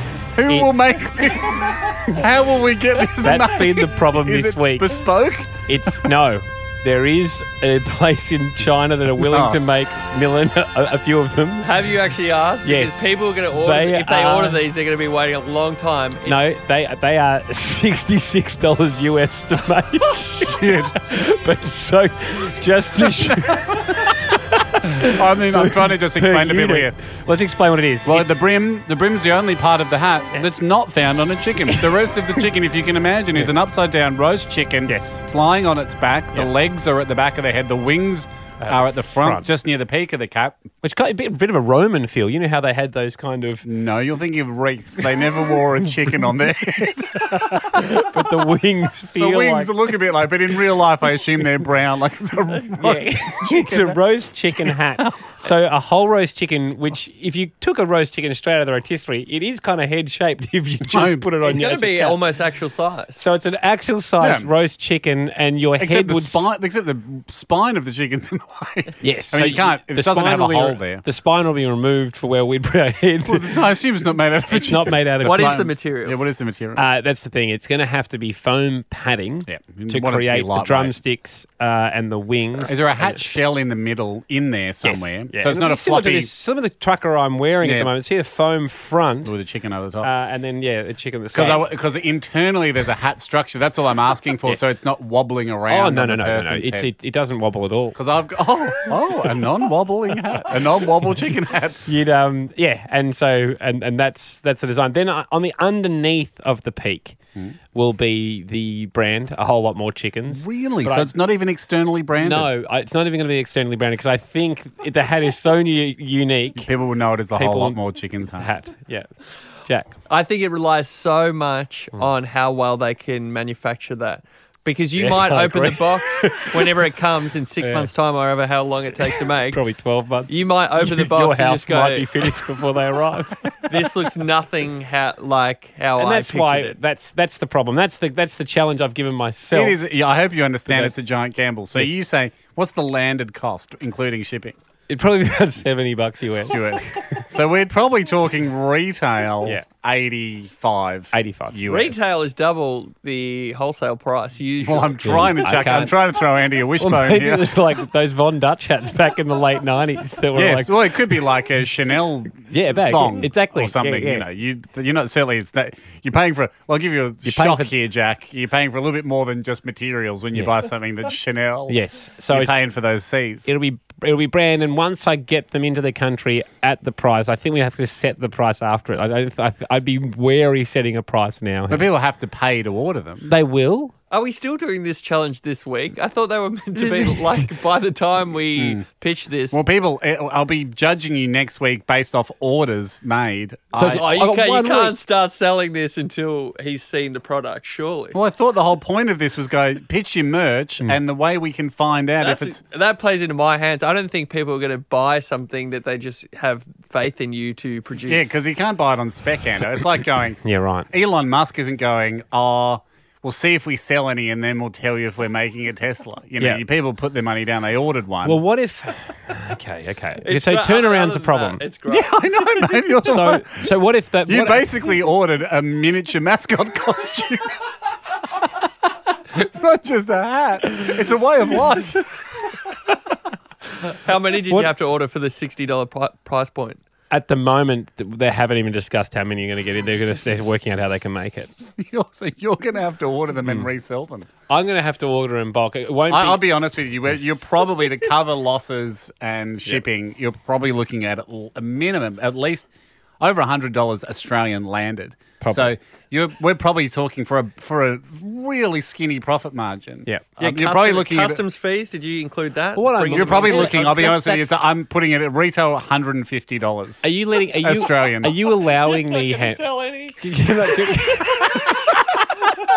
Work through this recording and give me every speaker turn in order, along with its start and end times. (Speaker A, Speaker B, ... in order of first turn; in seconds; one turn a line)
Speaker A: 0.4-5.6
Speaker B: 0.5-0.8
Speaker B: 3.2-5.1
Speaker B: 5.7-11.7
Speaker A: 9.2-9.6
Speaker C: 11.6-16.5
Speaker B: 12.6-14.6
Speaker B: 16.2-28.3
Speaker A: 20.4-21.0
Speaker A: 23.2-24.1
Speaker A: 25.1-26.9
Speaker A: 28.1-40.6
Speaker B: 31.7-32.1
Speaker B: 34.9-35.2
Speaker B: 38.6-39.5
Speaker B: 40.8-43.7
Speaker A: 43.6-47.8
Speaker B: 47.3-49.7
Speaker A: 49.2-54.0
Speaker B: 52.8-62.2
Speaker A: 54.5-55.3
Speaker A: 60.9-61.3
Speaker C: 61.4-63.2
Speaker B: 63.2-66.5
Speaker A: 64.2-64.5
Speaker A: 65.8-71.0
Speaker B: 69.0-73.5
Speaker A: 73.3-76.8
Speaker B: 74.5-75.7
Speaker C: 75.2-76.2
Speaker B: 76.8-83.2
Speaker A: 79.5-81.0
Speaker A: 82.7-86.3
Speaker B: 84.8-89.3
Speaker A: 87.6-87.9
Speaker A: 89.3-90.1
Speaker B: 90.0-91.7
Speaker A: 91.3-96.9
Speaker B: 95.7-98.0
Speaker A: 98.0-101.8
Speaker B: 101.9-107.2
Speaker B: 107.7-111.1
Speaker A: 110.3-112.5
Speaker B: 112.2-116.7
Speaker A: 116.6-118.5
Speaker B: 117.3-119.1
Speaker B: 119.6-120.0
Speaker C: 120.1-129.6
Speaker B: 125.0-126.5
Speaker B: 127.6-127.9
Speaker B: 129.5-133.7
Speaker C: 130.3-132.5
Speaker C: 133.7-136.8
Speaker B: 136.0-139.8
Speaker A: 139.5-144.6
Speaker B: 140.7-140.9
Speaker B: 144.9-147.2
Speaker A: 146.5-152.1
Speaker B: 151.1-151.6
Speaker C: 151.7-155.0
Speaker A: 154.6-157.5
Speaker B: 155.0-156.0
Speaker B: 156.8-160.7
Speaker A: 160.3-173.5
Speaker B: 162.5-164.2
Speaker B: 167.2-167.7
Speaker B: 171.7-172.6
Speaker B: 173.5-181.9
Speaker A: 181.7-183.3
Speaker B: 183.3-183.9
Speaker C: 184.1-189.6
Speaker B: 186.8-187.2
Speaker A: 188.6-188.8
Speaker A: 189.5-194.1
Speaker B: 193.7-195.0
Speaker C: 193.8-198.2
Speaker A: 198.1-202.6
Speaker C: 202.2-208.3
Speaker A: 208.1-218.4
Speaker B: 210.4-210.9
Speaker B: 218.2-221.6
Speaker C: 220.2-222.1
Speaker A: 221.9-223.6
Speaker B: 223.1-224.7
Speaker A: 224.3-227.6
Speaker A: 229.3-232.1
Speaker C: 234.0-236.8
Speaker B: 237.1-241.5
Speaker A: 241.8-244.3
Speaker B: 244.5-246.4
Speaker A: 246.1-252.7
Speaker A: 253.2-261.4
Speaker B: 255.4-255.7
Speaker C: 260.4-264.1
Speaker B: 262.8-264.6
Speaker A: 263.1-267.1
Speaker B: 267.0-269.6
Speaker A: 267.6-268.4
Speaker C: 268.8-270.2
Speaker B: 270.2-271.9